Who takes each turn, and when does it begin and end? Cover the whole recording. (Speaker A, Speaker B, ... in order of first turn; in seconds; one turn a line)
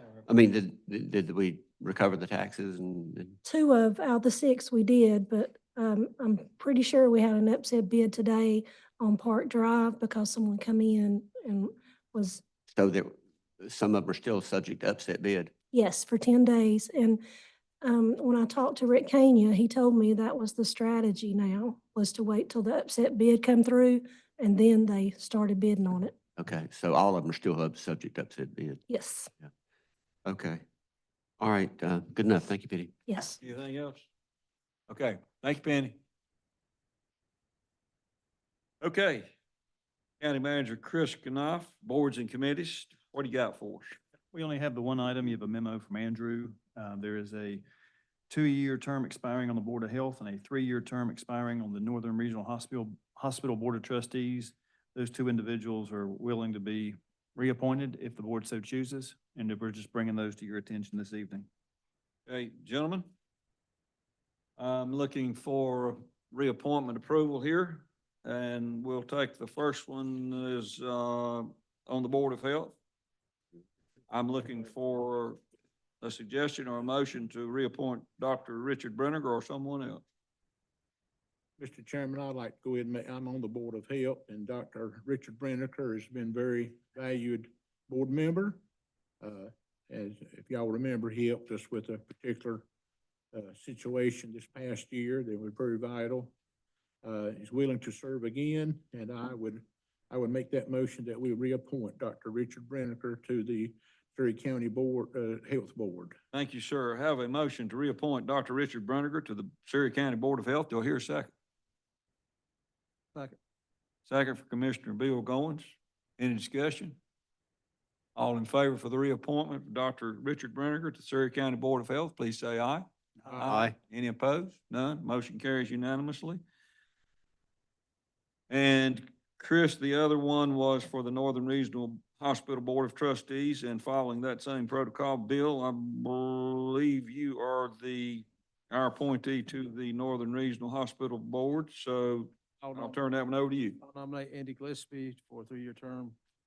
Speaker A: 0.3-3.4
Speaker B: 3.4-12.4
Speaker A: 12.7-15.5
Speaker B: 15.7-17.2
Speaker B: 17.8-26.1
Speaker A: 26.4-28.8
Speaker B: 28.9-29.3
Speaker A: 30.2-30.6
Speaker A: 31.4-32.9
Speaker B: 33.1-33.4
Speaker C: 33.4-34.1
Speaker C: 34.9-36.0
Speaker C: 38.8-39.3
Speaker C: 40.2-44.0
Speaker D: 44.3-47.6
Speaker D: 48.3-61.5
Speaker C: 62.3-63.1
Speaker C: 64.6-72.8
Speaker C: 74.1-75.4
Speaker C: 76.0-80.0
Speaker E: 81.6-88.6
Speaker E: 89.2-92.7
Speaker E: 93.3-96.3
Speaker E: 97.0-106.2
Speaker C: 106.3-111.3
Speaker C: 114.1-117.0
Speaker C: 118.2-126.4
Speaker A: 123.5-123.7
Speaker C: 128.5-143.8
Speaker F: 142.6-143.0
Speaker F: 143.8-146.2